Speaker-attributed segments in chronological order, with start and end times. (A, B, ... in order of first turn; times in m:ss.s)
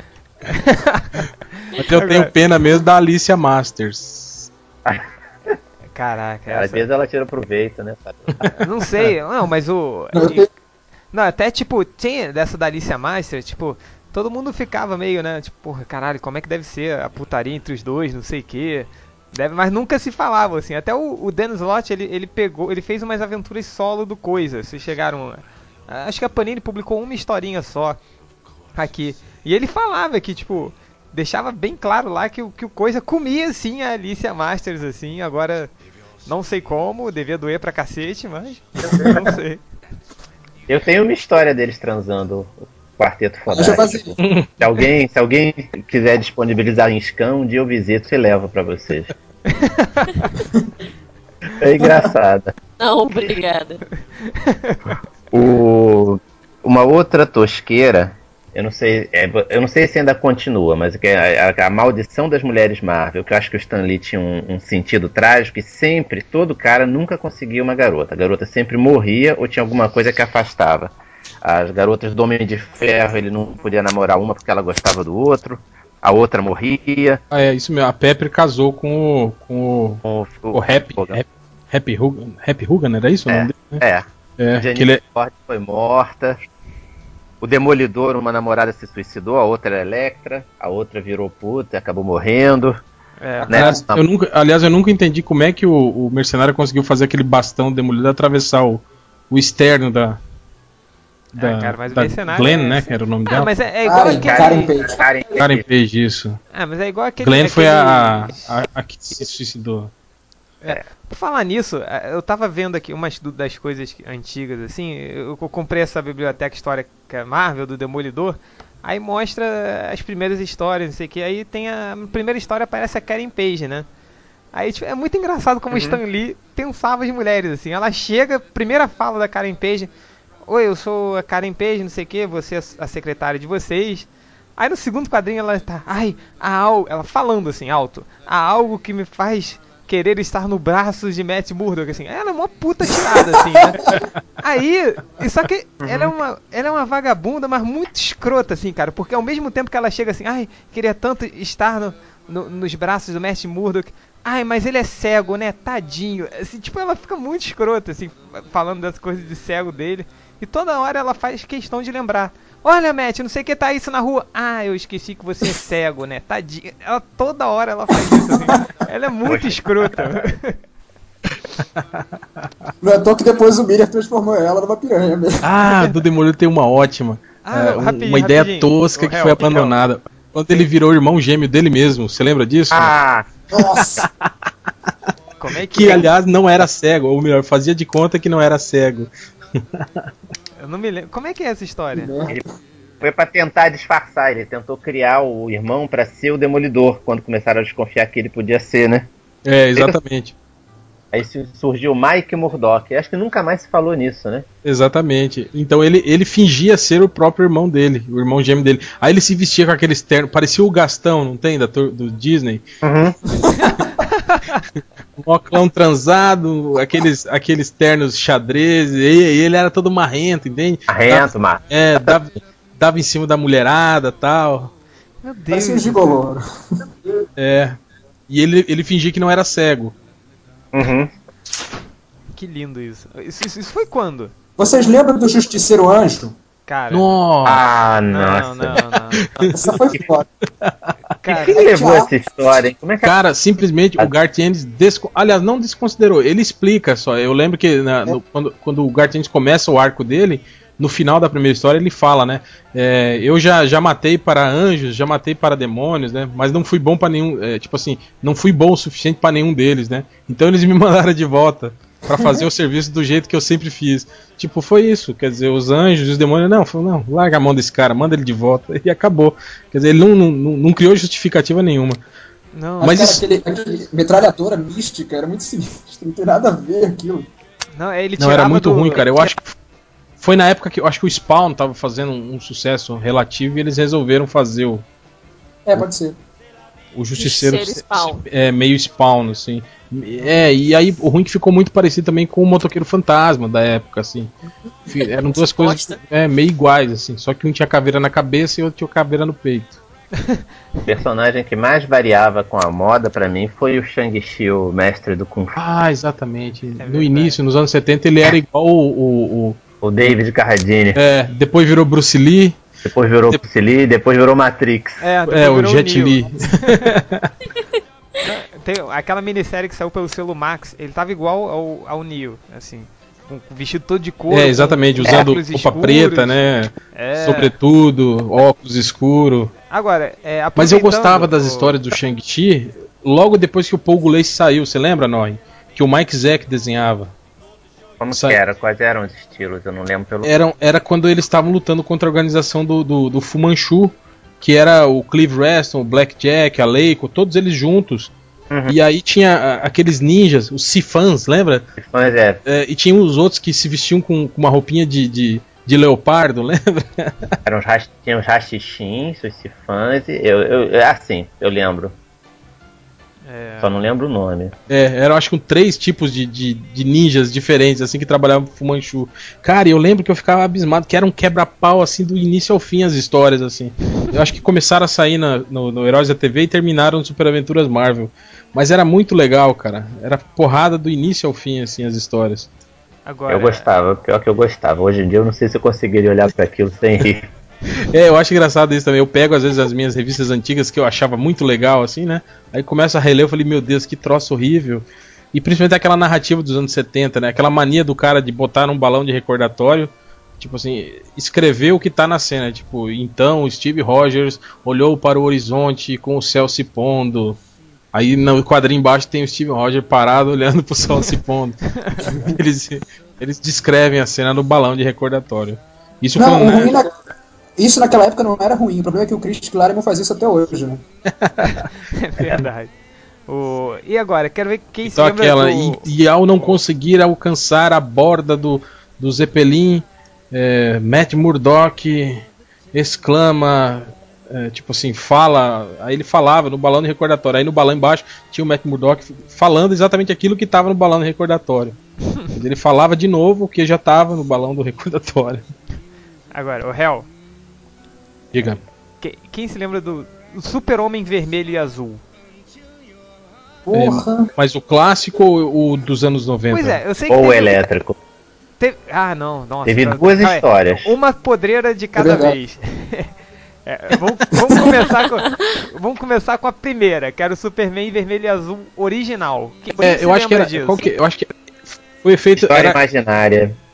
0:00.5-0:02.3 A
0:01.8-0:04.5 B
0:05.9-0:06.8 A
0:06.5-0:08.5 C
0:08.6-0:10.5 A
0:10.1-0:10.5 D
0:11.1-0:28.0 A
0:28.8-0:35.7 A
0:36.3-0:39.6 A
0:39.0-0:39.3 D
0:40.7-0:49.1 C
0:43.5-0:44.2 D
0:44.2-0:44.6 B
0:49.5-0:50.4 A
0:51.6-0:52.5 C
0:51.8-0:52.1 D
0:52.8-0:53.8 E
0:54.2-0:54.9 A
0:55.3-1:17.2 C
1:17.3-1:23.8 B
1:20.0-1:21.2 C
1:23.3-1:26.4 C
1:24.4-1:25.0 B
1:27.4-1:32.8 C
1:33.2-1:33.6 A
1:33.5-1:33.8 D
1:33.5-1:34.1 C
1:33.5-1:40.2 B
1:41.4-1:44.7 A
1:41.4-1:43.5 B
1:43.8-1:45.0 D
1:43.9-1:45.6 C
1:45.4-1:46.4 B
1:46.5-1:48.5 A
1:47.2-1:49.9 B
1:50.6-2:03.9 A
2:04.5-2:09.9 A
2:05.7-2:06.0 C
2:10.5-2:50.6 A
2:23.6-2:24.0 D
2:25.8-2:26.1 C
2:49.2-2:50.1 C
2:51.3-2:52.5 B
2:52.8-2:55.5 D
2:55.4-3:03.0 B
2:57.4-2:59.8 A
3:02.7-3:03.5 C
3:03.5-3:04.1 D
3:03.8-3:04.3 B
3:05.4-3:06.1 A
3:05.7-3:10.1 B
3:10.6-3:12.1 A
3:11.9-3:12.5 D
3:13.0-3:19.1 C
3:19.4-3:20.4 B
3:21.1-3:24.5 C
3:24.6-3:32.6 B
3:32.8-3:33.2 C
3:33.6-3:34.6 A
3:35.2-3:44.7 B
3:40.9-3:42.2 C
3:45.2-3:46.2 A
3:45.5-3:46.9 D
3:47.4-3:47.8 B
3:48.3-3:50.0 B
3:50.7-3:51.1 C
3:52.4-3:54.3 A
3:54.6-3:56.4 D
3:56.7-3:57.1 A
3:56.9-3:57.6 B
3:57.4-3:58.8 C
3:58.1-3:59.2 A
3:59.2-4:00.0 B
3:59.5-4:00.3 D
4:00.6-4:00.9 B
4:01.2-4:01.6 A
4:01.3-4:03.2 C
4:01.3-4:02.1 D
4:03.0-4:32.0 B
4:22.1-4:22.4 D
4:32.5-4:33.2 A
4:32.8-4:33.2 B
4:32.8-4:37.3 D
4:37.8-4:39.4 A
4:38.2-4:39.6 B
4:40.2-4:44.8 B
4:45.7-4:46.2 D
4:46.9-4:54.3 B
4:47.2-4:48.2 E
4:54.9-4:59.8 B
4:55.4-4:56.0 E
5:00.2-5:00.4 A
5:00.9-5:05.6 C
5:05.6-5:09.6 B
5:06.8-5:07.4 A
5:09.8-5:11.0 C
5:11.0-5:12.6 B
5:12.8-5:15.0 C
5:15.0-5:17.0 A
5:15.3-5:17.3 B
5:18.2-5:26.4 A
5:24.3-5:29.5 B
5:25.1-5:25.3 C
5:26.9-5:27.5 A
5:29.7-5:31.8 A
5:30.6-5:37.1 B
5:38.0-5:40.3 C
5:38.1-5:38.4 B
5:40.2-5:48.1 B
5:48.5-5:48.8 C
5:48.7-5:51.7 B
5:51.8-5:52.4 C
5:52.4-5:57.4 B
5:57.5-6:01.9 C
6:03.3-6:03.8 A
6:03.6-6:04.5 C
6:04.7-6:22.5 B
6:23.1-6:23.7 A
6:23.3-6:27.3 C
6:27.7-6:47.4 B
6:47.9-6:56.8 B
6:56.2-6:56.9 D
6:57.6-7:00.8 D
7:01.1-7:01.7 B
7:01.4-7:02.7 A
7:03.3-7:06.6 A
7:04.9-7:21.8 B
7:22.3-7:25.4 B
7:26.3-7:27.1 A
7:28.3-7:28.6 B
7:29.0-7:32.0 A
7:33.7-7:34.3 D
7:33.7-7:36.8 B
7:36.5-7:37.6 A
7:37.1-7:38.0 C
7:38.6-7:43.1 A
7:39.6-7:40.9 C
7:42.0-7:42.4 D
7:43.6-7:50.9 A
7:49.8-7:52.8 B
7:52.4-7:53.6 C